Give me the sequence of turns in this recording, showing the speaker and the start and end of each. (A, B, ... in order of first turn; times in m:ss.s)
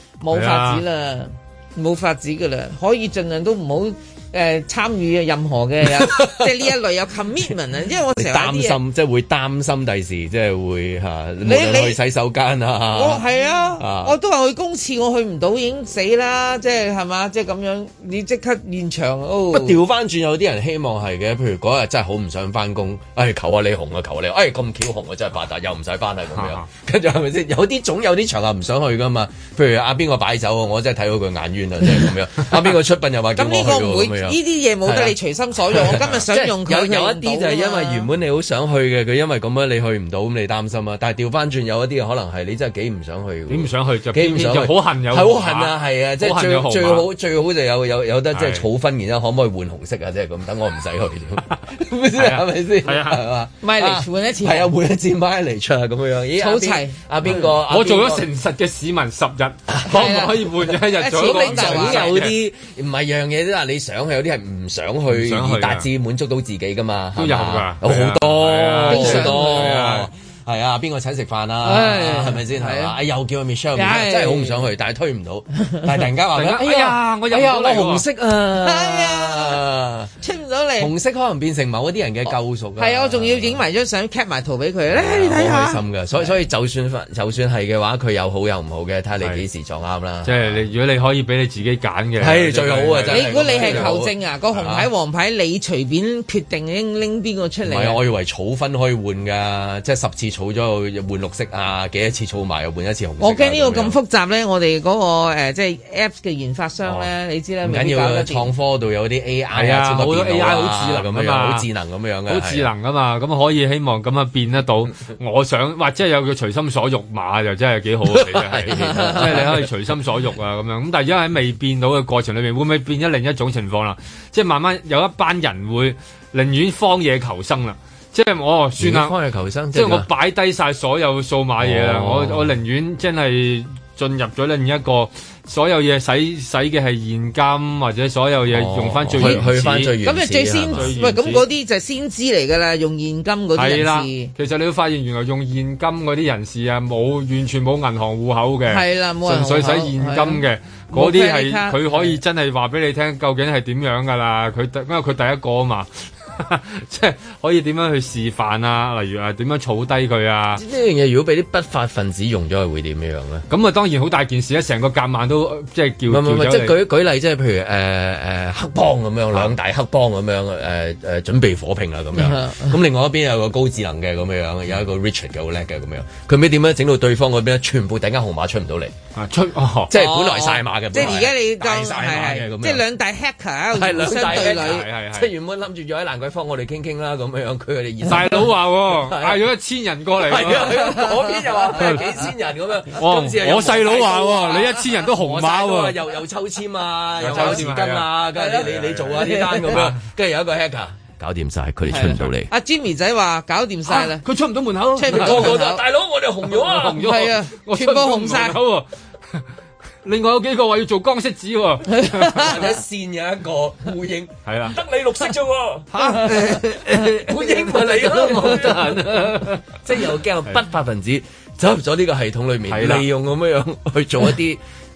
0:00.2-0:08.8 A
0:00.3-0:00.8 B
0:06.0-0:06.5 C
0:08.2-0:13.2 C
0:11.4-0:12.0 A
0:12.9-0:19.8 A
0:13.8-0:14.2 C
0:19.5-0:35.2 C
0:26.3-0:26.6 B
0:33.4-0:38.1 A
0:35.7-0:58.2 C
0:43.5-0:47.1 B
0:48.3-0:48.7 B
0:52.2-0:53.2 B
0:53.6-0:54.7 A
0:56.4-0:57.0 A
0:57.2-1:02.4 B
0:59.9-1:00.4 A
1:00.9-1:02.2 A
1:01.1-1:20.1 C
1:05.1-1:05.9 B
1:07.2-1:10.1 B
1:08.9-1:09.5 A
1:11.6-1:13.0 A
1:13.8-1:14.6 A
1:16.3-1:18.0 B
1:18.6-1:19.6 A
1:20.2-1:20.9 A
1:20.8-1:23.6 C
1:22.3-1:26.3 A
1:24.9-1:30.6 C
1:30.2-1:34.0 B
1:32.2-1:34.9 C
1:33.1-1:38.0 A
1:37.6-1:44.0 C
1:43.2-1:48.5 A
1:47.6-1:52.7 C
1:49.5-1:51.7 B
1:52.3-2:09.2 B
1:58.1-1:59.7 C
1:58.8-1:59.4 A
2:08.8-2:10.1 C
2:09.7-2:19.9 B
2:11.6-2:12.5 C
2:18.5-2:20.9 C
2:20.0-2:24.3 A
2:20.8-2:21.4 B
2:23.6-2:40.6 B
2:28.7-2:32.2 A
2:40.6-2:43.5 C
2:43.5-2:46.8 B
2:46.1-2:58.9 C
2:52.2-2:52.7 A
2:59.2-2:59.9 B
2:59.9-3:02.8 C
2:59.9-3:04.9 A
3:03.7-3:09.4 C
3:04.0-3:05.3 B
3:08.0-3:11.1 B
3:10.2-3:22.5 C
3:11.8-3:12.0 B
3:13.0-3:16.0 B
3:17.2-3:20.0 B
3:18.4-3:19.9 A
3:21.9-3:24.2 A
3:21.9-3:22.2 B
3:23.9-3:25.6 B
3:25.0-3:25.8 A
3:25.1-3:27.0 C
3:26.5-3:29.4 B
3:27.0-3:28.6 A
3:30.0-3:32.6 B
3:32.0-3:32.5 A
3:32.3-3:44.6 C
3:34.5-3:34.8 B
3:35.9-3:39.6 B
3:37.7-3:38.5 A
3:42.7-3:43.1 B